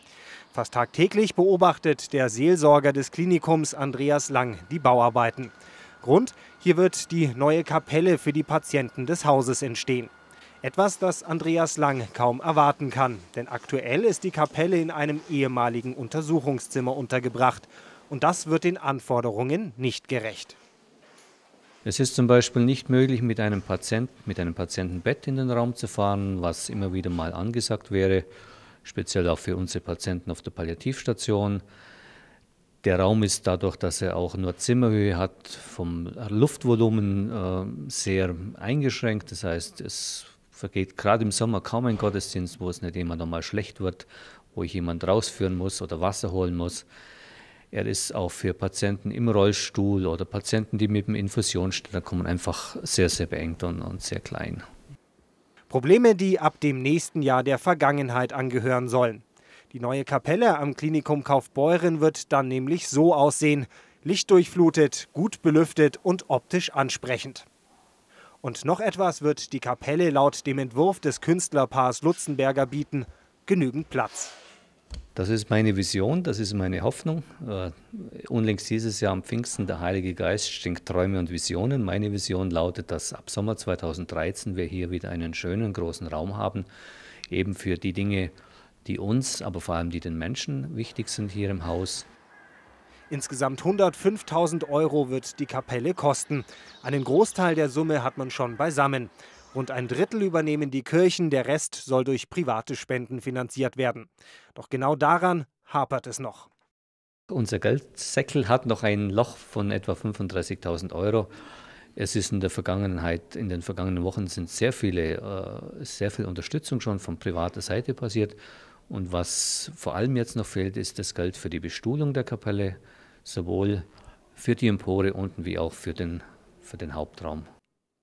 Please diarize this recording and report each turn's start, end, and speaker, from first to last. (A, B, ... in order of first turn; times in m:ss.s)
0:00.5-0:10.1 A
0:10.6-0:20.6 A
0:21.8-0:28.3 B
0:28.8-0:31.6 B
0:32.8-0:46.8 B
0:47.7-0:54.6 B
0:55.7-1:07.5 A
1:08.4-1:14.3 A
1:15.2-1:26.7 B
1:27.3-1:28.3 B
1:28.8-1:32.1 B
1:33.1-1:46.5 A
1:47.3-1:51.3 B
1:52.0-1:58.4 B
1:58.9-2:07.5 B